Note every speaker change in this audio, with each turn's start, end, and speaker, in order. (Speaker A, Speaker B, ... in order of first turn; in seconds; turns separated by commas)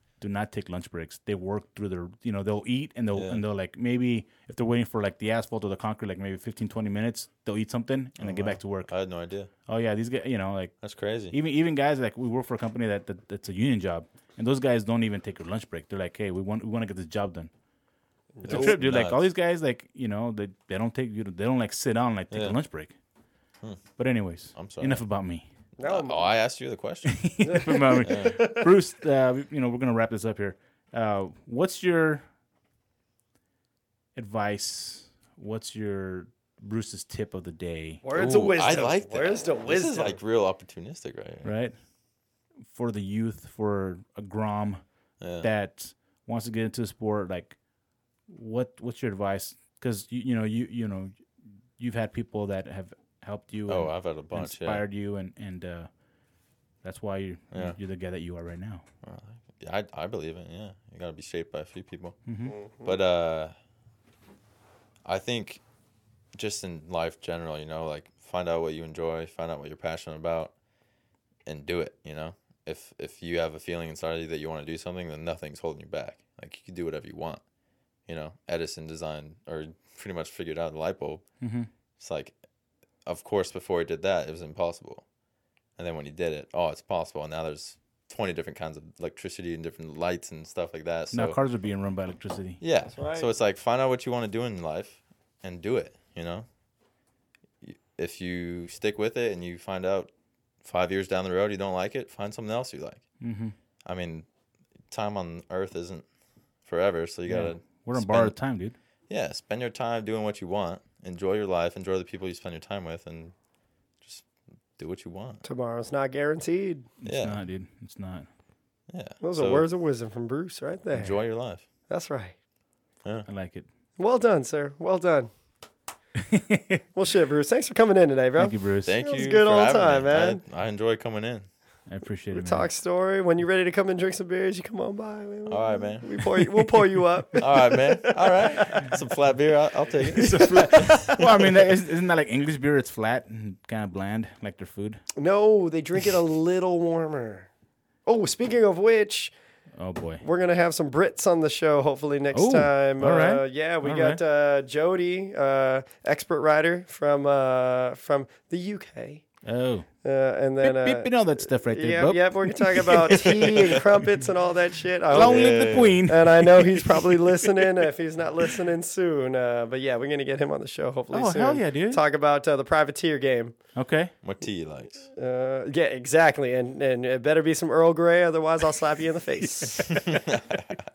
Speaker A: 0.2-8.9, Speaker B: 3.1-3.4, Speaker B: 8.2-9.5, Speaker A: 9.7-10.8, Speaker B: 10.8-11.4, Speaker A: 11.3-17.5, Speaker C: 18.4-18.8, Speaker B: 18.4-19.3, Speaker A: 18.4-22.9, Speaker A: 24.0-25.5, Speaker B: 24.6-25.0, Speaker C: 25.8-26.3, Speaker B: 25.8-27.3, Speaker A: 27.1-32.2, Speaker C: 27.4-28.7, Speaker B: 28.0-28.4, Speaker A: 34.2-38.0, Speaker C: 38.0-40.2, Speaker B: 38.1-41.5, Speaker A: 41.4-41.8, Speaker A: 42.7-44.8, Speaker B: 45.2-45.5, Speaker A: 45.4-47.6, Speaker A: 48.3-51.2, Speaker A: 51.8-55.9, Speaker B: 53.7-54.9, Speaker A: 56.8-58.8, Speaker B: 57.5-57.8, Speaker B: 59.0-62.2, Speaker A: 62.3-62.5, Speaker C: 62.5-63.0, Speaker B: 62.8-63.5, Speaker B: 65.0-65.6, Speaker B: 66.3-70.5, Speaker B: 71.5-77.4, Speaker B: 78.1-81.2, Speaker A: 81.4-81.7, Speaker B: 82.0-82.3, Speaker B: 83.0-85.0, Speaker B: 85.8-91.4, Speaker A: 91.1-92.6, Speaker B: 92.6-96.5, Speaker C: 93.0-93.3, Speaker B: 97.6-100.1, Speaker B: 100.6-103.0, Speaker A: 103.2-103.5, Speaker B: 103.8-104.3, Speaker B: 104.9-106.0, Speaker B: 106.7-108.4, Speaker A: 107.3-108.8, Speaker B: 109.1-113.3, Speaker B: 114.0-115.4, Speaker C: 115.4-116.9, Speaker A: 117.0-118.3, Speaker B: 117.0-117.4, Speaker B: 118.9-119.7, Speaker C: 119.2-121.2, Speaker B: 120.9-121.7, Speaker C: 121.9-122.3, Speaker A: 123.3-123.7, Speaker C: 124.0-125.3, Speaker A: 126.3-126.8, Speaker C: 127.0-130.4, Speaker A: 128.4-128.9, Speaker B: 128.8-131.5, Speaker A: 131.9-132.7, Speaker C: 132.3-138.9, Speaker B: 135.5-136.1, Speaker B: 137.4-141.3, Speaker C: 140.1-141.2, Speaker A: 140.1-145.0, Speaker C: 145.2-147.5, Speaker C: 148.1-149.3, Speaker A: 149.8-150.2, Speaker C: 150.2-159.2, Speaker A: 152.3-154.2, Speaker A: 159.4-159.9, Speaker C: 160.0-173.6, Speaker A: 160.6-163.9, Speaker B: 165.1-166.0, Speaker A: 165.1-167.2, Speaker A: 171.1-172.0, Speaker A: 173.8-174.1, Speaker B: 174.2-175.1, Speaker C: 175.2-180.0, Speaker B: 180.0-180.8